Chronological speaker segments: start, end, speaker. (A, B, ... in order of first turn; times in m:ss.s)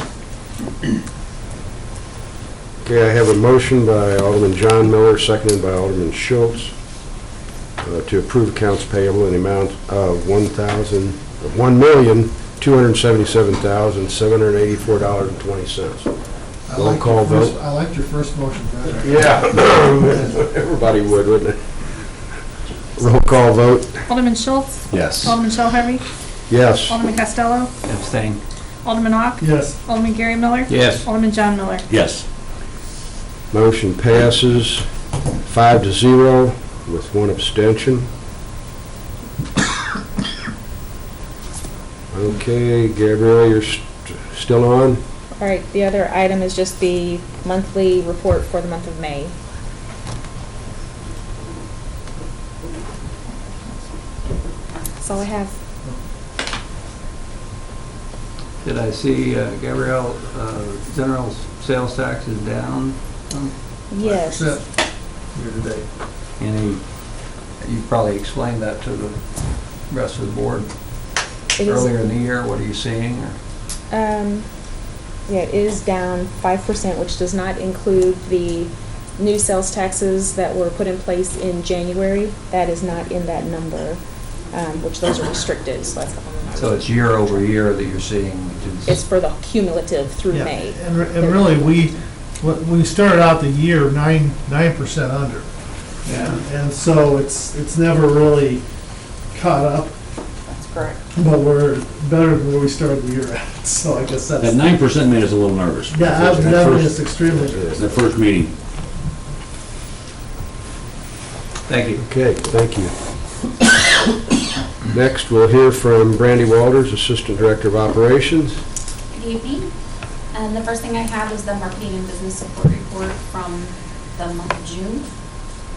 0:02.8-0:07.0 A
0:07.8-0:17.6 A
0:16.7-0:19.3 B
0:19.0-0:22.0 A
0:23.0-0:24.1 A
0:24.1-0:26.0 C
0:25.0-0:25.3 D
0:26.5-0:27.0 A
0:26.7-0:27.7 C
0:27.9-0:28.4 E
0:28.8-0:31.8 C
0:29.4-0:29.8 B
0:30.7-0:31.0 E
0:31.9-0:32.2 D
0:33.5-0:34.9 A
0:35.5-0:38.1 A
0:42.1-0:45.0 A
0:45.4-0:49.3 F
0:55.0-0:55.5 F
0:58.6-1:03.5 E
1:03.9-1:04.6 F
1:04.0-1:04.6 B
1:05.3-1:05.9 B
1:06.4-1:06.8 E
1:07.6-1:09.2 E
1:09.8-1:10.7 E
1:11.6-1:11.9 F
1:11.6-1:13.4 E
1:13.9-1:14.5 F
1:15.3-1:24.0 F
1:24.5-1:26.8 F
1:26.6-1:29.0 E
1:28.9-1:31.5 F
1:30.3-1:35.5 B
1:36.1-1:36.4 E
1:36.1-1:38.6 B
1:39.3-1:40.0 B
1:41.1-1:44.6 B
1:44.4-1:47.0 D
1:45.9-1:47.6 B
1:47.4-1:48.0 A
1:47.5-1:48.5 D
1:51.7-1:52.0 E
1:52.0-1:52.9 A
1:54.9-1:58.6 A
1:59.1-1:59.7 G
2:00.3-2:05.1 G